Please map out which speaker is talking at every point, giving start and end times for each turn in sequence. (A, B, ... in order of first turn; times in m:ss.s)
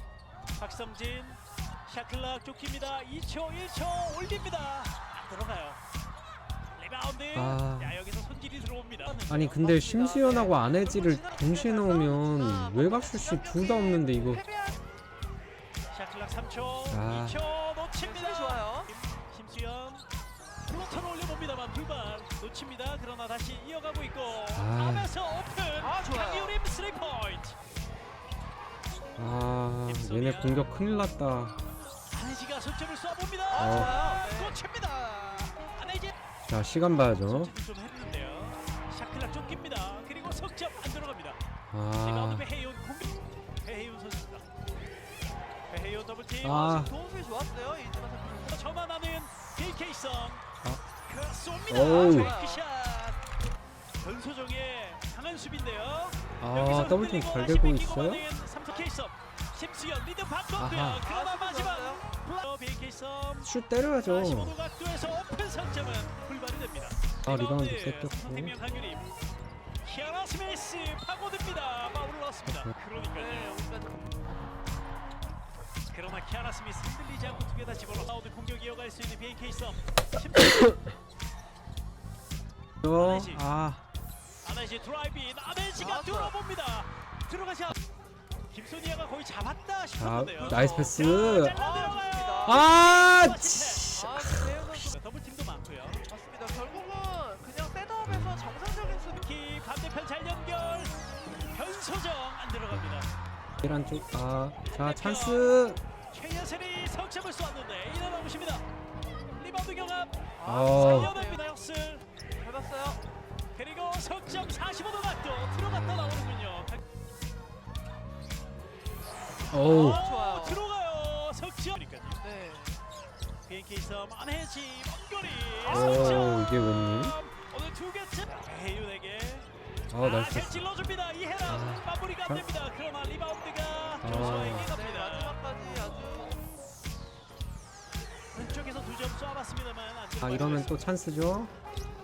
0:00.5-0:05.8 A
0:06.8-0:09.7 A
0:07.4-0:08.0 B
0:09.3-0:14.4 B
0:09.6-0:14.8 C
0:15.9-0:20.0 A
0:16.9-0:17.4 B
0:18.0-0:18.9 C
0:20.7-0:27.6 A
0:24.6-0:25.1 B
0:25.8-0:26.6 C
0:29.2-0:31.6 B
0:29.9-0:30.7 A
0:32.1-0:36.1 A
0:33.5-0:34.6 C
0:33.6-0:34.0 B
0:36.5-0:37.5 B
0:37.2-0:41.4 A
0:41.7-0:42.5 B
0:42.0-0:44.4 A
0:45.7-0:46.8 A
0:46.4-0:46.9 B
0:46.5-0:48.7 C
0:48.5-0:50.4 A
0:51.0-0:53.2 A
0:51.7-0:52.3 B
0:51.9-0:52.6 C
0:54.0-1:03.5 A
0:56.4-0:58.2 B
1:00.6-1:01.0 B
1:01.0-1:02.0 C
1:03.4-1:04.6 B
1:04.0-1:09.0 A
1:07.3-1:08.5 B
1:09.8-1:13.6 A
1:13.2-1:14.2 C
1:15.9-1:20.7 A
1:22.8-1:23.8 B
1:22.9-1:23.4 A
1:24.4-1:27.8 A
1:25.8-1:26.4 C
1:28.5-1:33.9 A
1:30.0-1:31.6 B
1:31.5-1:32.6 C
1:32.5-1:34.7 B
1:33.9-1:34.9 C
1:34.8-1:36.1 A
1:36.1-1:39.2 C
1:38.1-1:38.5 B
1:39.2-1:43.1 A
1:42.7-1:45.8 B
1:44.7-1:45.5 A
1:46.1-1:48.6 A
1:49.4-1:52.0 A
1:50.4-1:51.4 C
1:50.4-1:51.2 B
1:52.4-1:53.0 C
1:53.6-1:56.8 A
1:55.4-1:56.6 B
1:59.5-2:00.1 B
1:59.6-2:02.2 A
2:00.0-2:00.7 C
2:02.2-2:02.8 C
2:03.5-2:15.4 A
2:05.7-2:07.2 B
2:09.9-2:10.6 B
2:11.5-2:12.5 B
2:14.0-2:14.8 B
2:14.5-2:16.4 C
2:18.3-2:20.8 A
2:20.2-2:21.5 B